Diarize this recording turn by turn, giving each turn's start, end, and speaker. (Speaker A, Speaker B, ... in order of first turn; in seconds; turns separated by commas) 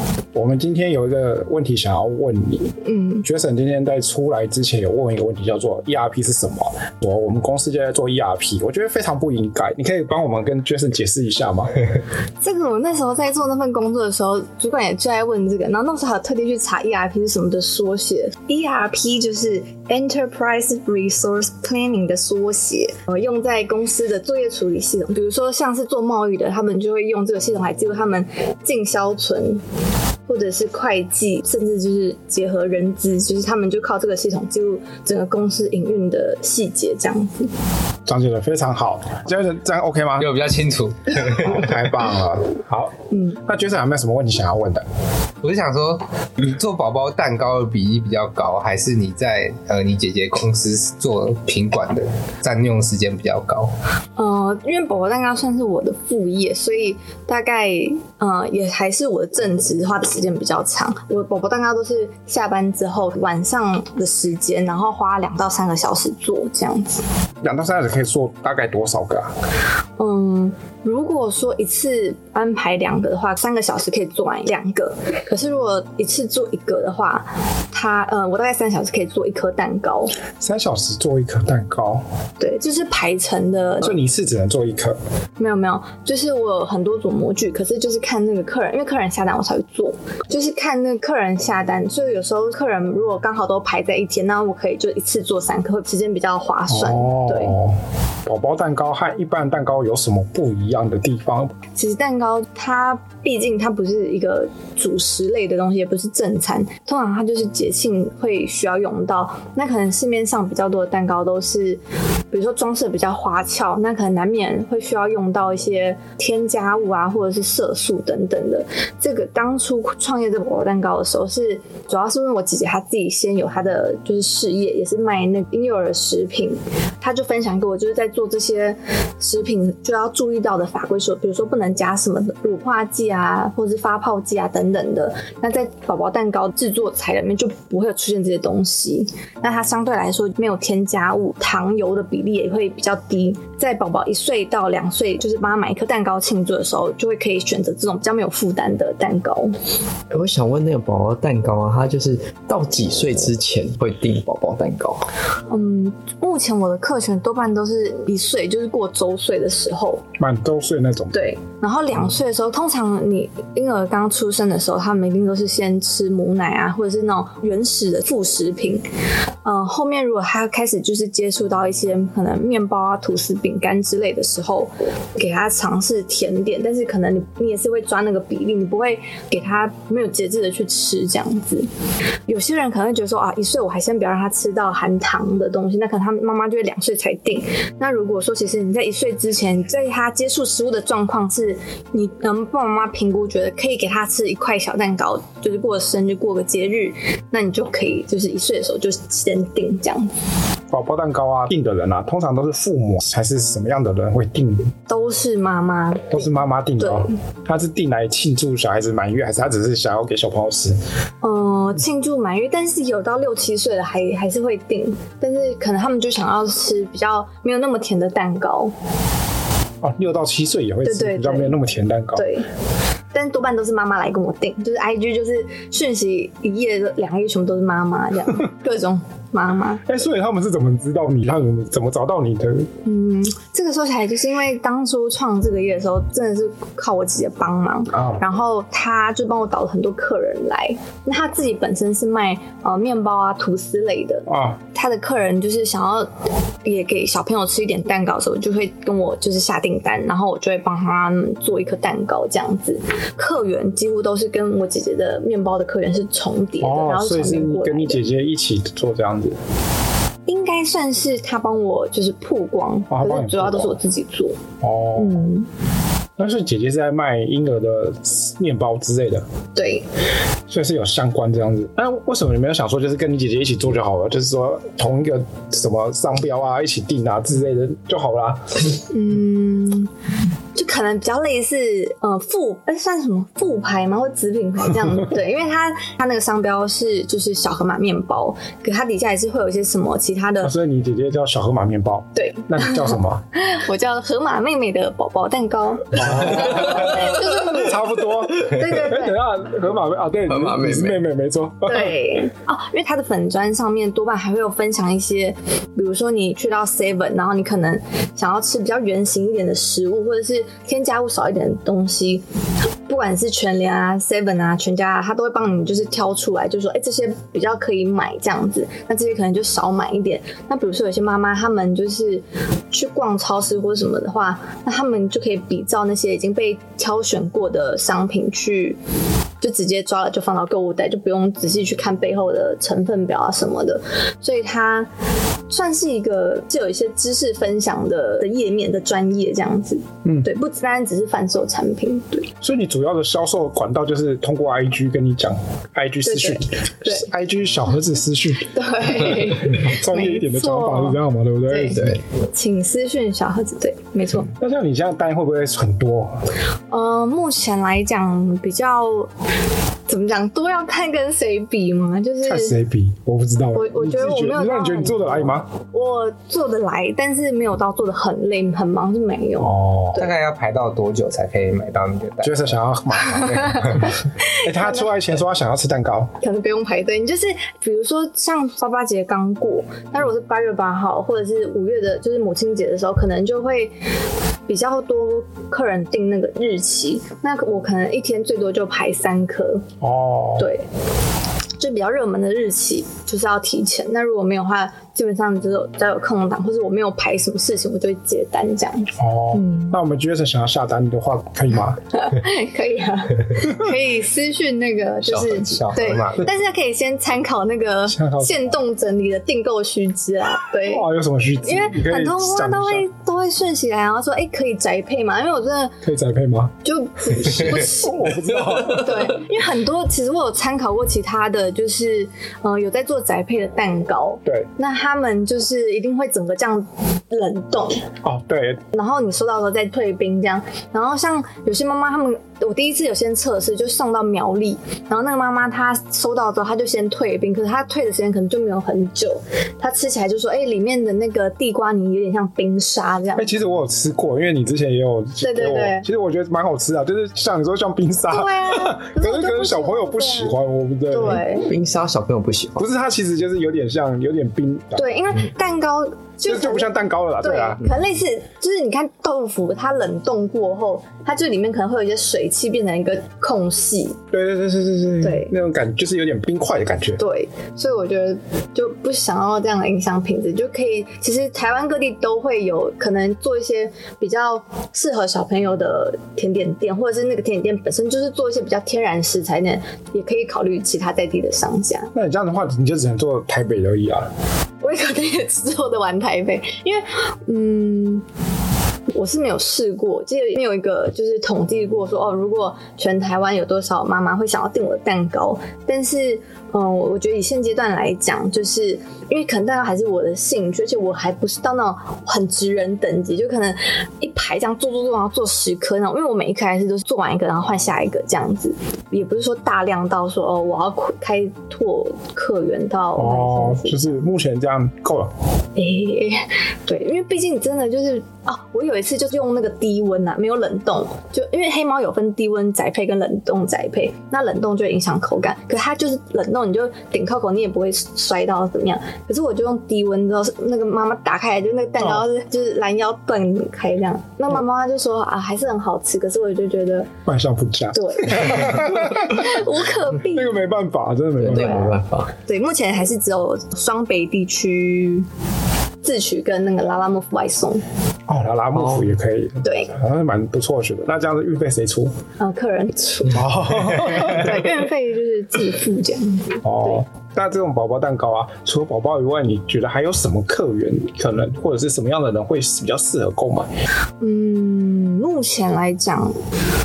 Speaker A: 0.3-11.8, Speaker B: 2.8-3.2, Speaker B: 12.4-29.6, Speaker B: 30.3-37.5, Speaker A: 38.1-40.3, Speaker C: 40.2-41.8, Speaker A: 41.4-44.9, Speaker B: 43.1-43.4, Speaker C: 45.4-53.7, Speaker B: 54.2-67.0, Speaker A: 67.4-69.3, Speaker B: 70.0-80.2, Speaker A: 80.4-82.0, Speaker B: 82.4-84.0, Speaker A: 83.8-85.0, Speaker B: 85.4-97.6, Speaker A: 96.7-101.6, Speaker B: 101.8-149.5, Speaker D: 150.1-155.1, Speaker B: 155.5-160.1, Speaker A: 160.2-161.2, Speaker B: 161.1-168.9, Speaker B: 169.4-181.7, Speaker B: 182.3-200.1, Speaker A: 200.7-204.7, Speaker B: 204.9-207.1, Speaker A: 206.1-210.8, Speaker B: 211.2-218.7, Speaker A: 219.8-222.3, Speaker B: 220.8-221.6, Speaker B: 222.2-222.5, Speaker B: 223.1-229.8, Speaker A: 229.8-232.7, Speaker B: 232.8-246.1, Speaker A: 237.9-238.2, Speaker A: 244.3-244.6, Speaker B: 246.6-258.0, Speaker A: 256.6-259.4, Speaker B: 260.3-264.4, Speaker A: 262.9-263.8, Speaker A: 264.6-265.2, Speaker B: 265.0-265.5, Speaker A: 266.2-269.3, Speaker B: 269.6-269.9, Speaker A: 270.5-278.6, Speaker B: 278.9-279.9, Speaker B: 280.6-290.5, Speaker A: 290.4-293.2, Speaker B: 292.2-299.2, Speaker A: 295.9-302.0, Speaker D: 300.3-301.0, Speaker B: 301.6-312.2, Speaker B: 312.9-328.8, Speaker B: 329.4-334.9, Speaker B: 335.5-342.3, Speaker A: 342.4-352.0, Speaker B: 346.0-347.1, Speaker B: 348.4-354.3, Speaker A: 354.3-356.3, Speaker B: 356.7-359.1, Speaker B: 359.9-362.6, Speaker A: 362.2-365.5, Speaker B: 363.5-370.1, Speaker A: 369.4-370.0, Speaker C: 370.0-372.5, Speaker A: 372.2-376.2, Speaker B: 373.2-373.7, Speaker C: 373.5-373.9, Speaker B: 374.2-374.9, Speaker B: 376.2-383.8, Speaker B: 384.5-389.7, Speaker A: 389.8-390.5, Speaker B: 390.4-390.7, Speaker B: 391.6-399.8, Speaker A: 399.0-401.8, Speaker B: 401.9-410.9, Speaker D: 405.1-406.0, Speaker C: 405.3-406.2, Speaker A: 407.9-408.5, Speaker A: 410.6-412.9, Speaker B: 411.4-415.8, Speaker A: 415.8-416.6, Speaker B: 416.6-427.8, Speaker A: 417.2-419.2, Speaker A: 428.0-428.6, Speaker B: 428.7-443.3, Speaker A: 443.2-451.2, Speaker B: 445.2-445.9, Speaker B: 448.1-450.4, Speaker B: 450.9-451.5, Speaker D: 451.3-452.7, Speaker A: 452.6-454.9, Speaker B: 454.8-464.0, Speaker A: 456.3-457.7, Speaker A: 464.1-467.0, Speaker B: 465.0-465.3, Speaker B: 467.0-481.9, Speaker A: 481.9-484.1, Speaker B: 484.6-488.1, Speaker B: 488.9-513.9, Speaker A: 513.0-515.1, Speaker B: 515.6-536.9, Speaker A: 537.1-541.8, Speaker B: 537.7-540.4, Speaker D: 541.2-542.1, Speaker B: 541.3-541.7, Speaker B: 542.3-545.1, Speaker B: 545.8-547.6, Speaker A: 548.1-552.0, Speaker D: 548.5-548.9, Speaker B: 549.4-549.7, Speaker B: 552.2-556.8, Speaker A: 553.1-554.6, Speaker A: 556.4-563.5, Speaker B: 564.0-566.2